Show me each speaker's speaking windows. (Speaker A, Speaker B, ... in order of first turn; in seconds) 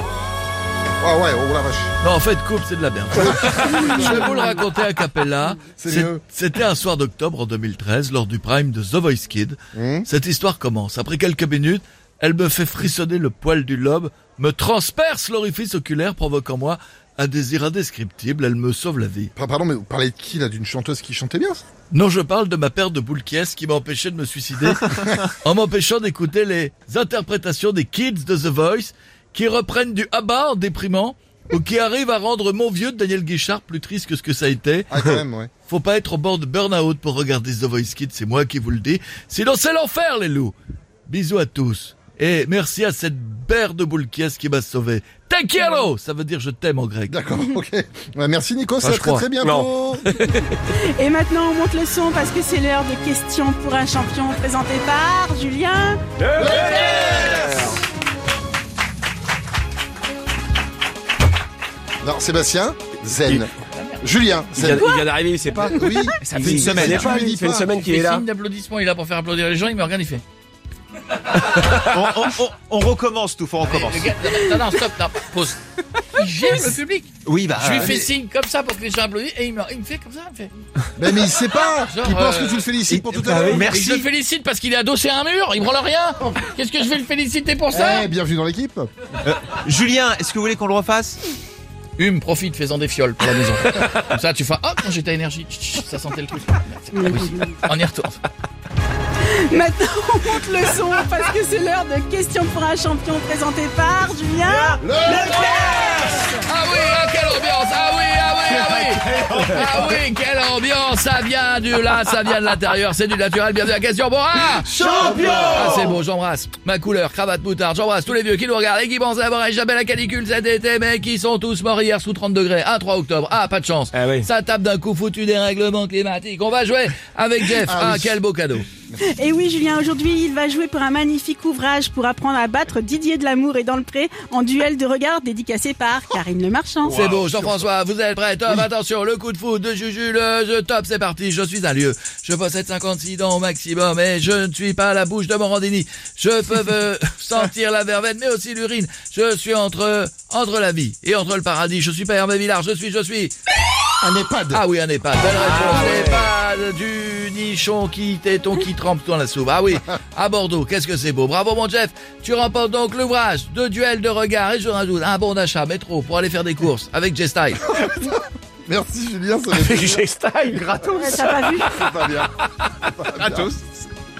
Speaker A: 1.0-1.9, 3.1-4.2, 5.8-6.2, 9.7-10.1, 19.4-21.6, 34.9-35.5, 47.1-50.1, 56.4-57.7, 62.0-63.5, 64.0-64.9, 65.7-67.7, 77.7-78.1, 81.0-83.7, 87.7-88.9, 104.8-105.4, 114.8-115.8, 127.6-128.2, 128.8-129.2, 154.0-154.6, 167.7-170.0, 171.0-173.5
Speaker B: 2.0-19.3, 21.9-35.0, 35.7-40.5, 41.1-47.2, 48.8-49.3, 63.5-64.1, 66.3-66.8, 67.7-70.2, 73.6-80.5, 81.9-82.7, 83.3-88.1, 92.0-98.2, 106.3-128.7, 136.8-153.3, 154.5-167.7
Speaker C: 3.8-4.2, 50.7-56.0, 96.9-97.5, 99.2-106.4, 129.1-137.0, 170.9-171.8
Speaker D: 49.4-50.6, 56.2-57.8, 64.6-68.2, 82.9-83.7, 114.8-115.5, 123.9-124.3, 155.4-156.3, 169.5-170.8, 171.6-172.0
Speaker E: 66.2-67.2, 71.9-74.1, 77.3-77.9, 83.5-84.1, 89.2-91.2, 170.8-171.2, 173.2-173.7